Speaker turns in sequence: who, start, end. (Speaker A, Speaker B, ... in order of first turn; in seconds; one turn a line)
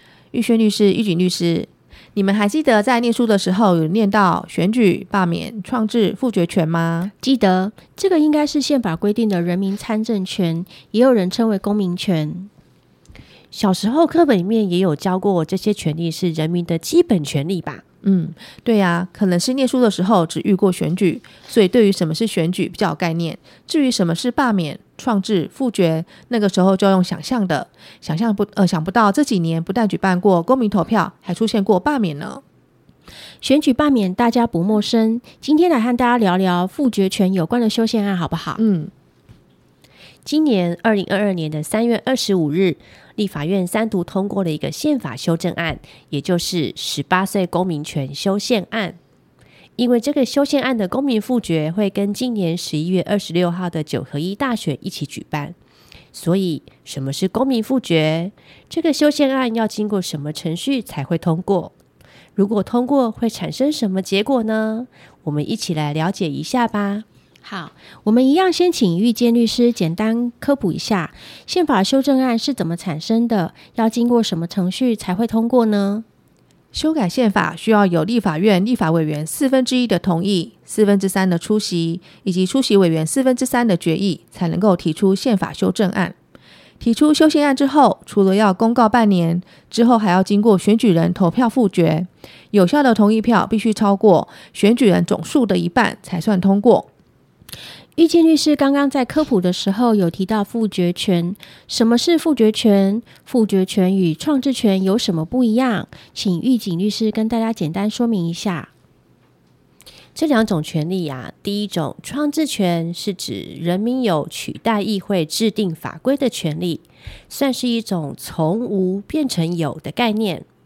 Speaker A: 0.3-7.1
Speaker B: 7.2-12.5
Speaker C: 13.5-17.8
Speaker A: 18.0-32.4
Speaker B: 33.4-38.6
Speaker A: 38.6-38.9
Speaker C: 40.2-49.0
Speaker C: 49.8-55.5
Speaker C: 56.1-61.7
Speaker C: 62.4-67.0
Speaker B: 67.4-76.0
Speaker A: 76.7-86.1
Speaker A: 86.8-96.9
Speaker B: 98.0-108.7
Speaker C: 110.1-120.5